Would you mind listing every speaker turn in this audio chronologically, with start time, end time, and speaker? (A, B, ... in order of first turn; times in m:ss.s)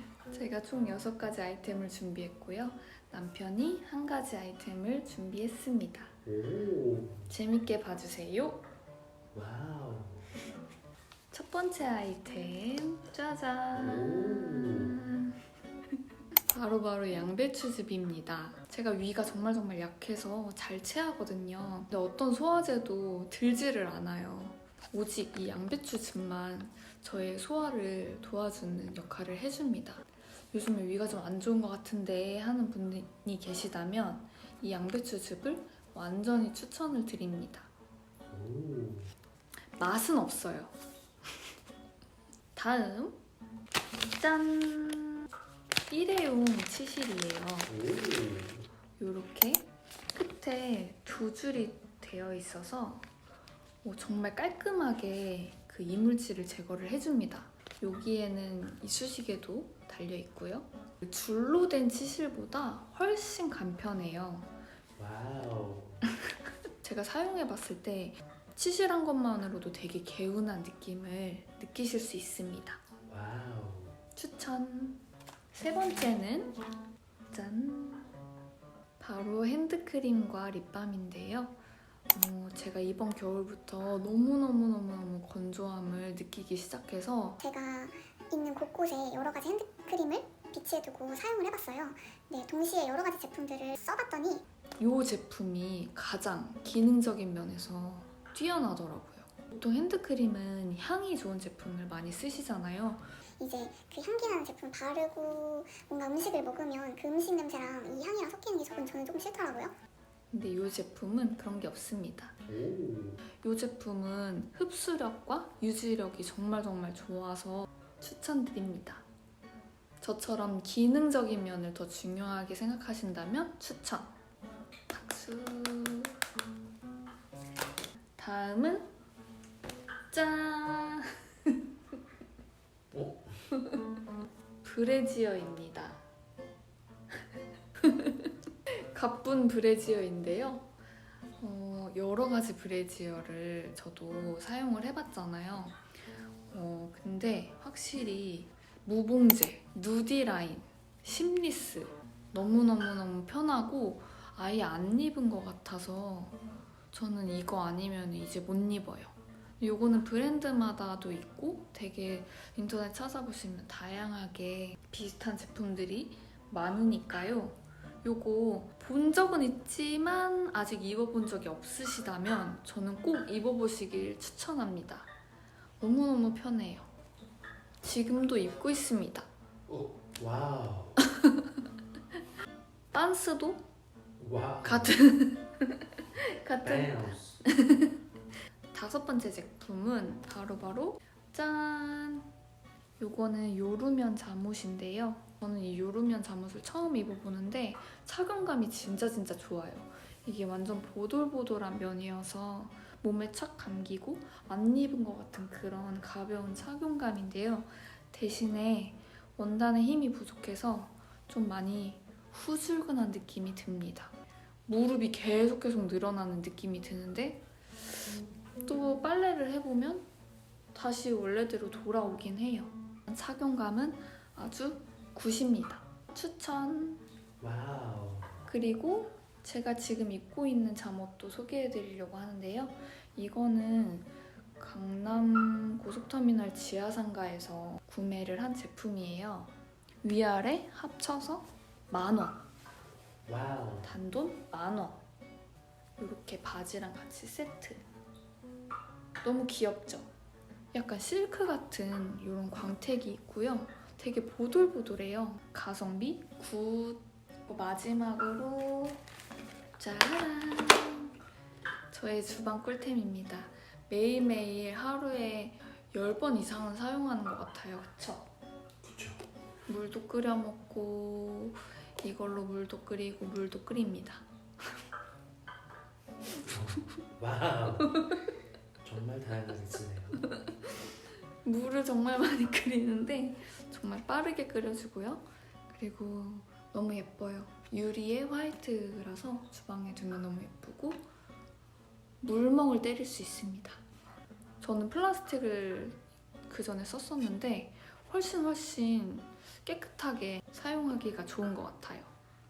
0:00.3-0:06.1 A
0:06.2-0:07.3 B
0:07.3-0:08.6 A
0:09.3-0:10.4 B
0:11.3-0:15.4 A
0:13.7-0:15.0 B
0:16.5-0:37.7 A
0:38.3-0:39.1 B
0:39.8-0:40.7 A
0:42.5-0:43.2 A
0:44.0-0:45.3 A
0:45.9-0:47.7 A
0:47.7-0:48.7 B
0:49.0-0:53.0 A
0:53.8-1:04.5 A
1:05.0-1:06.0 B
1:06.8-1:12.8 A
1:13.1-1:14.0 B
1:14.2-1:16.6 A
1:17.3-1:18.1 A
1:19.0-1:21.6 A
1:22.1-1:27.4 A
1:27.4-1:34.4 C
1:34.8-1:43.1 A
1:43.4-1:49.7 C
1:50.3-1:52.4 A
1:52.5-1:53.2 B
1:53.4-1:59.0 A
2:00.0-2:04.2 A
2:04.9-2:06.1 A
2:08.2-2:08.9 A
2:10.1-2:11.5 A
2:12.9-2:13.4 B
2:14.6-2:16.0 A
2:17.8-2:20.7 A
2:21.4-2:25.8 A
2:26.5-2:36.4 A
2:36.9-2:55.1 A
2:55.8-2:56.9 A
2:57.8-2:59.3 A
2:59.7-3:01.0 B
3:02.9-3:03.6 A
3:04.2-3:05.0 B
3:04.6-3:07.9 A
3:06.6-3:07.4 B
3:08.7-3:12.3 A
3:13.0-3:34.1 A
3:34.7-3:40.1 A
3:40.7-3:47.0 A
3:47.4-3:48.5 B
3:48.5-4:02.4 A
4:03.2-4:03.9 B
4:03.8-4:05.0 A
4:06.0-4:07.8 A
4:09.2-4:10.1 A
4:10.7-4:19.0 A
4:19.8-4:21.1 A
4:21.9-4:28.3 A
4:28.8-4:29.2 B
4:29.7-4:34.2 A
4:36.4-4:38.0 B
4:38.8-4:40.2 B
4:41.4-4:51.0 A
4:52.2-4:53.8 A
4:54.6-5:02.1 A